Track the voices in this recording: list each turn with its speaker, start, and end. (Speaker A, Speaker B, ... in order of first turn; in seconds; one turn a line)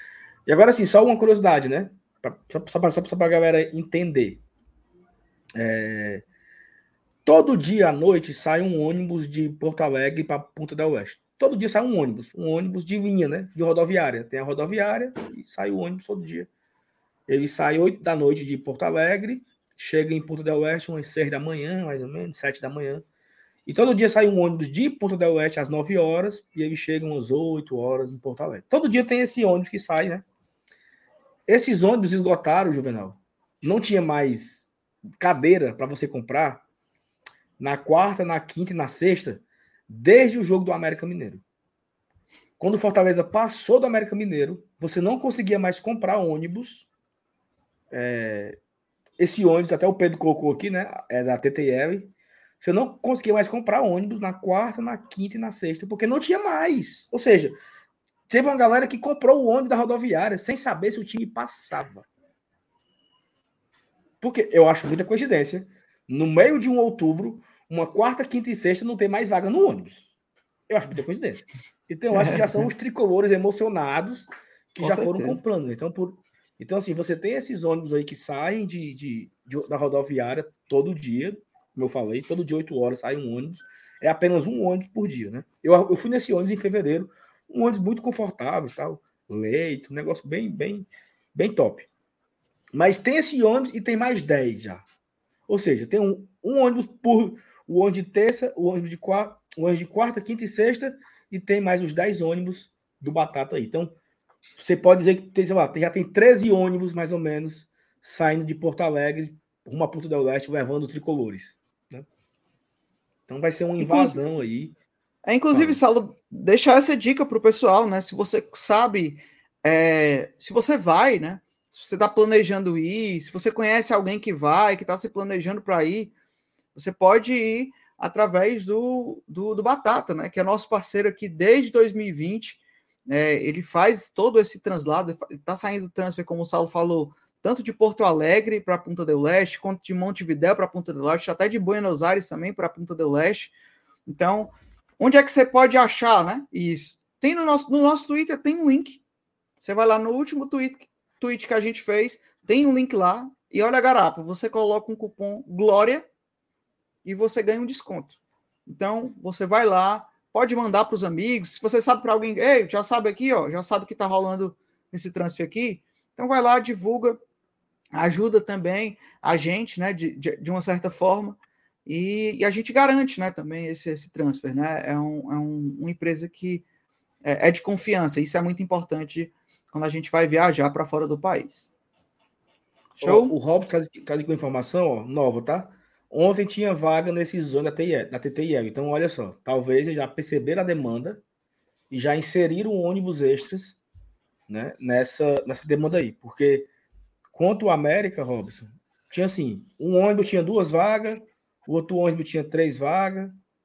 Speaker A: 0.5-4.4
Speaker A: 5.5-6.2
Speaker A: 7.2-16.5
Speaker A: 17.3-23.0
Speaker A: 23.6-30.2
Speaker A: 31.5-36.6
Speaker A: 37.6-41.4
Speaker A: 42.6-46.9
Speaker A: 47.9-48.6
Speaker A: 49.2-57.6
Speaker A: 58.3-62.0
Speaker A: 64.2-70.1
Speaker A: 70.7-91.9
Speaker B: 72.2-72.6
Speaker B: 74.8-75.4
Speaker A: 92.7-94.8
Speaker A: 95.5-103.9
Speaker A: 104.6-112.0
Speaker A: 113.3-114.7
Speaker B: 113.8-114.2
Speaker B: 115.2-126.1
Speaker A: 115.5-115.8
Speaker B: 126.7-143.5
Speaker B: 144.1-149.0
Speaker B: 149.6-156.1
Speaker B: 157.0-167.2
Speaker B: 167.9-176.6
Speaker B: 177.2-181.7
Speaker A: 183.0-191.2
Speaker B: 183.0-183.3
Speaker A: 191.9-193.8
Speaker A: 194.5-196.7
Speaker A: 197.3-203.3